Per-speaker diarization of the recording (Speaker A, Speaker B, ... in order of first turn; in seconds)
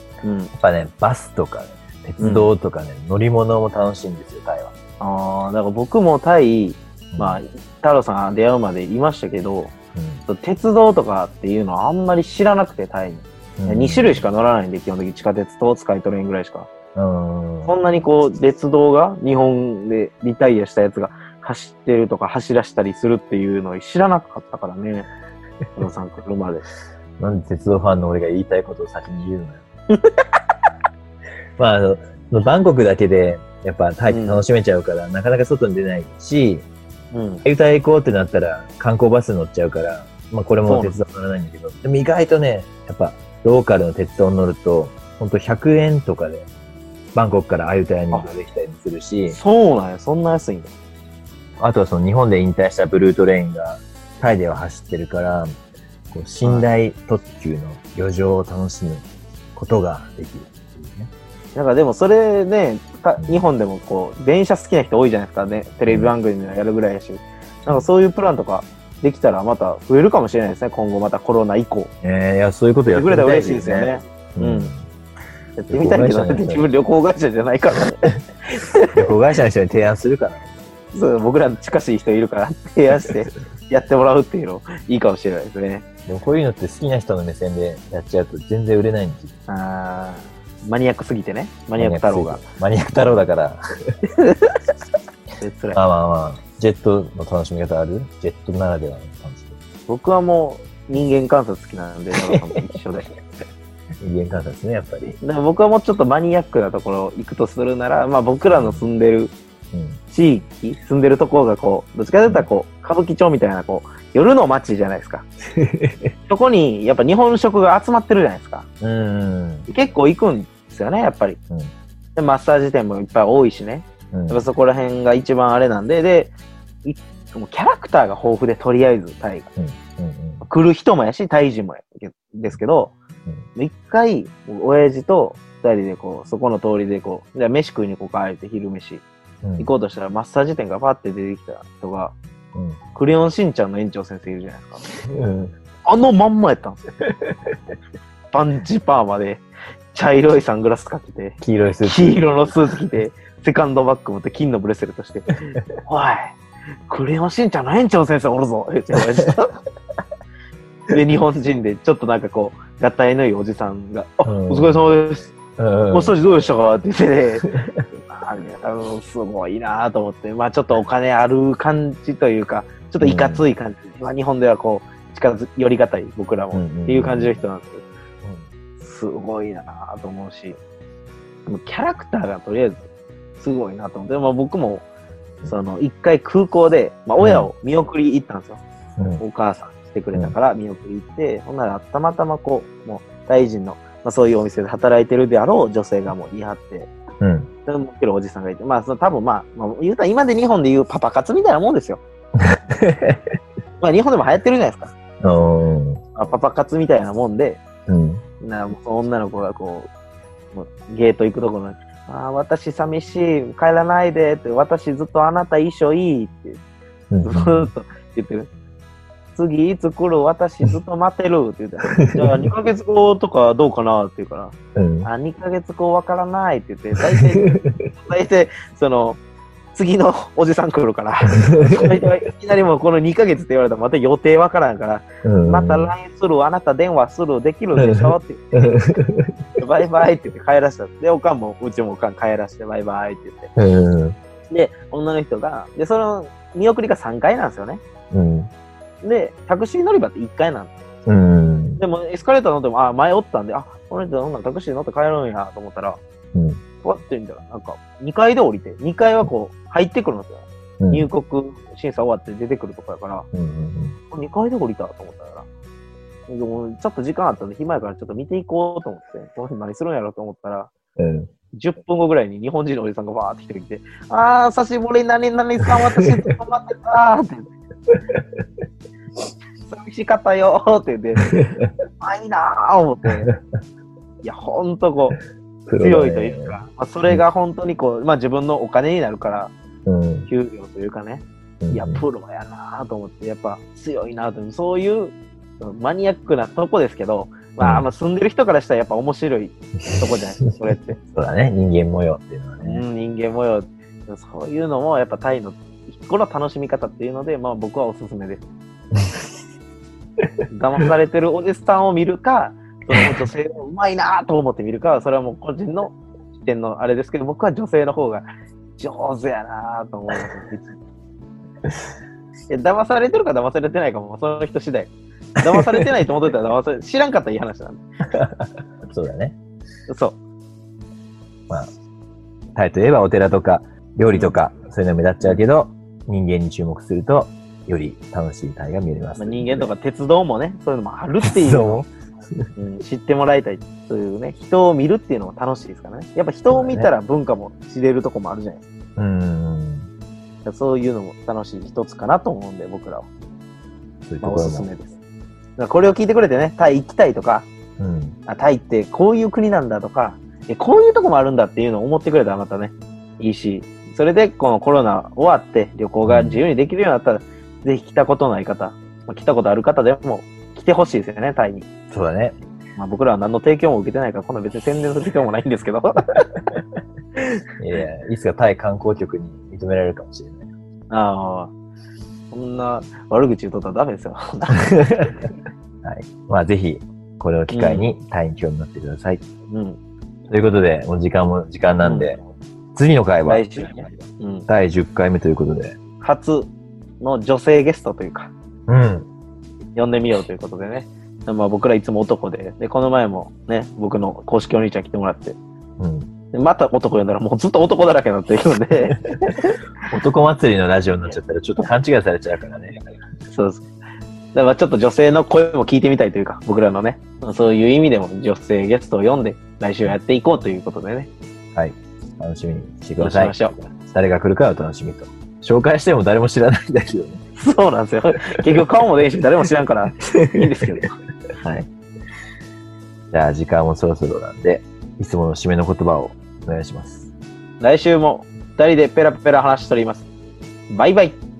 Speaker A: 0.2-0.5, 2.2-2.5, 5.0-9.7, 10.3-16.7, 17.6-25.1, 25.8-26.6, 29.9-30.2, 34.1-34.4, 37.1-37.4, 40.6-40.9, 49.3-50.7, 61.5-71.9, 72.9-74.7, 75.6-79.0, 80.9-85.9, 89.5-92.4, 94.0-94.5, 95.4-95.8, 99.9-103.1, 105.2-109.3, 110.1-115.2, 116.3-118.7, 119.7-121.4, 122.2-126.3, 126.8-129.5, 130.4-132.9, 133.6-139.0, 139.6-142.1, 142.9-144.8, 145.8-146.8, 148.3-156.3, 156.9-159.6, 160.9-165.3, 165.9-177.8, 178.8-180.6, 181.4-182.8, 183.4-184.8, 185.5-188.6, 189.2-196.9, 197.7-202.0, 203.8-204.9, 206.2-207.6, 208.4-209.9, 210.5-216.6, 217.2-218.5, 219.3-229.2, 229.7-238.8, 239.6-243.5, 244.5-247.8, 249.0-250.7, 251.8-256.0, 256.8-263.3, 264.1-265.4, 266.3-270.7, 271.5-277.5, 279.6-281.3, 282.0-283.3, 284.2-285.1, 285.8-289.5, 290.3-301.0, 302.6-308.4, 310.5-318.2, 318.8-320.7, 322.5-327.8, 329.9-330.2, 339.2-341.9, 342.6-348.6, 350.4-353.1, 354.2-354.9, 355.6-357.5, 358.3-371.6, 372.8-376.2, 380.9-381.5, 382.3-385.1, 387.5-387.9, 389.5-389.8, 391.8-392.2, 393.2-394.5, 396.0-396.5, 397.0-398.3, 399.8-405.4, 406.3-409.5, 413.3-413.6, 414.3-421.1, 423.0-423.7, 427.4-430.9, 437.6-440.1, 440.7-441.2
Speaker B: 0.5-4.7, 7.1-7.4, 9.9-10.2, 13.6-14.3, 16.9-18.1, 27.2-29.6, 31.6-36.6, 37.4-46.5, 47.1-49.4, 51.6-55.5, 56.1-61.1, 63.2-63.5, 65.9-66.1, 72.0-74.9, 75.7-76.7, 78.9-80.5, 86.0-89.3, 91.8-93.6, 95.7-99.6, 102.2-102.6, 104.0-105.2, 108.5-108.8, 109.7-110.0, 115.5-116.1, 118.8-119.7, 124.1-124.5, 129.6-130.4, 139.4-139.7, 142.5-142.8, 145.0-145.5, 147.0-147.6, 151.4-152.5, 164.2-164.9, 165.6-166.2, 167.5-167.8, 173.0-173.4, 176.5-177.4, 178.2-178.5, 187.2-187.5, 189.0-189.2, 197.2-197.5, 202.4-203.2, 205.2-206.0, 207.9-208.2, 217.1-217.7, 221.9-222.5, 224.8-225.1, 227.0-227.9, 231.3-232.0, 235.2-235.9, 237.8-239.3, 243.6-244.2, 248.1-248.5, 251.1-251.8, 256.3-256.6, 260.8-261.1, 263.3-264.0, 271.0-271.3, 275.6-276.3, 277.9-278.2, 281.2-281.7, 285.7-287.2, 289.9-290.3, 291.6-292.0, 297.6-297.9, 299.8-302.8, 308.9-309.3, 312.9-313.2, 325.4-326.0, 328.1-329.4, 332.6-339.7, 341.2-342.5, 346.5-346.9, 349.0-349.9, 354.1-354.7, 357.8-358.2, 366.0-366.4, 371.9-372.4, 377.6-380.5, 384.5-385.3, 385.8-389.2, 390.3-392.2, 392.7-393.9, 394.5-395.8, 398.7-399.1, 405.8-406.1, 409.9-412.8, 421.5-427.2, 430.0-430.4, 433.1-437.1